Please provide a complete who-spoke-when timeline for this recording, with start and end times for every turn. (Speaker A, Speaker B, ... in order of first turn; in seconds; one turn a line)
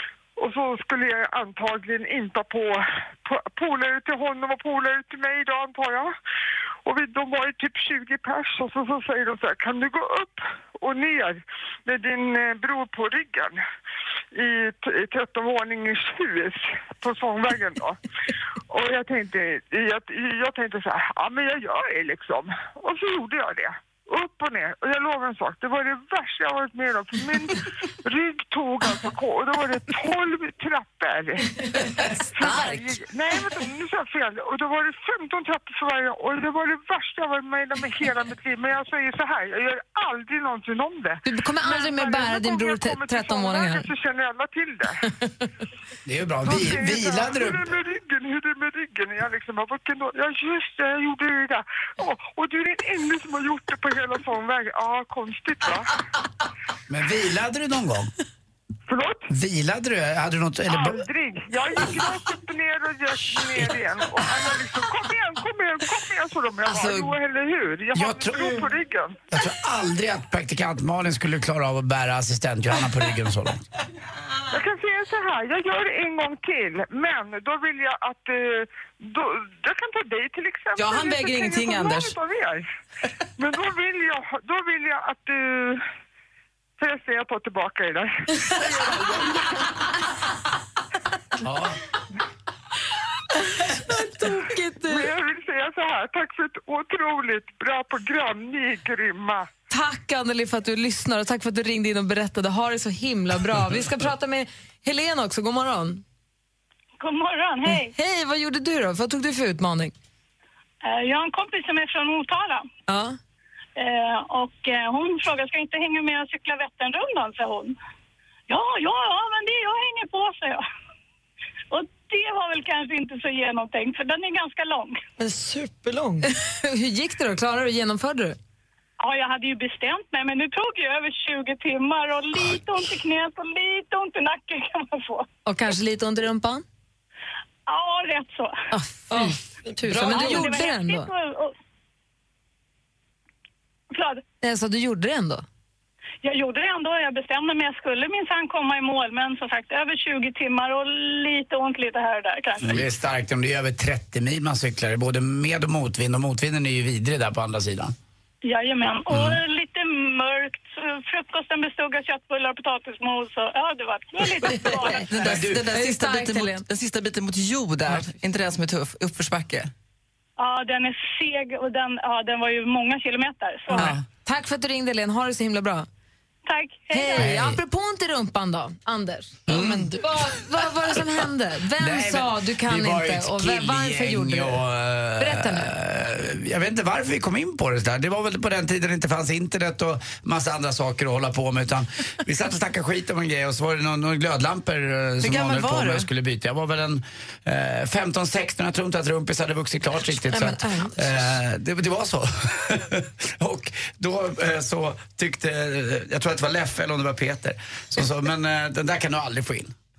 Speaker A: 0.4-6.1
Speaker A: 6.8-13.6
Speaker A: 14.3-18.0
Speaker A: 18.7-45.0
Speaker B: 32.0-32.8
Speaker B: 41.2-43.9
Speaker C: 46.0-47.6
Speaker A: 46.4-55.9
Speaker C: 56.9-58.1
Speaker A: 58.9-59.3
Speaker C: 59.3-61.0
Speaker A: 60.7-69.2
Speaker C: 67.9-68.6
Speaker C: 69.3-73.6
Speaker A: 74.5-82.6
Speaker D: 80.8-82.1
Speaker A: 83.4-85.8
Speaker A: 86.8-89.7
Speaker C: 91.4-91.8
Speaker B: 93.7-95.1
Speaker A: 94.8-99.5
Speaker B: 99.7-106.0
Speaker E: 107.0-107.9
Speaker B: 107.7-109.9
Speaker E: 110.8-112.7
Speaker B: 112.9-113.2
Speaker E: 113.8-117.8
Speaker E: 118.5-120.6
Speaker E: 121.7-125.0
Speaker F: 125.2-126.3
Speaker B: 126.2-128.4
Speaker E: 129.0-135.3
Speaker B: 135.4-136.6
Speaker E: 137.7-138.6
Speaker B: 138.7-141.1
Speaker F: 139.1-140.6
Speaker E: 140.0-141.5
Speaker E: 143.9-144.2
Speaker B: 144.4-145.4
Speaker E: 146.2-152.8
Speaker C: 152.6-157.9
Speaker E: 158.4-165.0
Speaker C: 159.1-159.4
Speaker D: 165.0-169.7
Speaker C: 165.1-165.6
Speaker B: 165.7-166.6
Speaker E: 170.4-173.9
Speaker D: 173.7-174.0
Speaker B: 173.7-175.9
Speaker E: 176.4-177.3
Speaker B: 176.9-179.4
Speaker C: 177.2-177.6
Speaker C: 179.5-179.9
Speaker F: 179.5-180.0
Speaker B: 180.0-184.6
Speaker C: 181.8-209.7
Speaker B: 185.2-185.7
Speaker D: 195.2-196.1
Speaker B: 200.0-201.2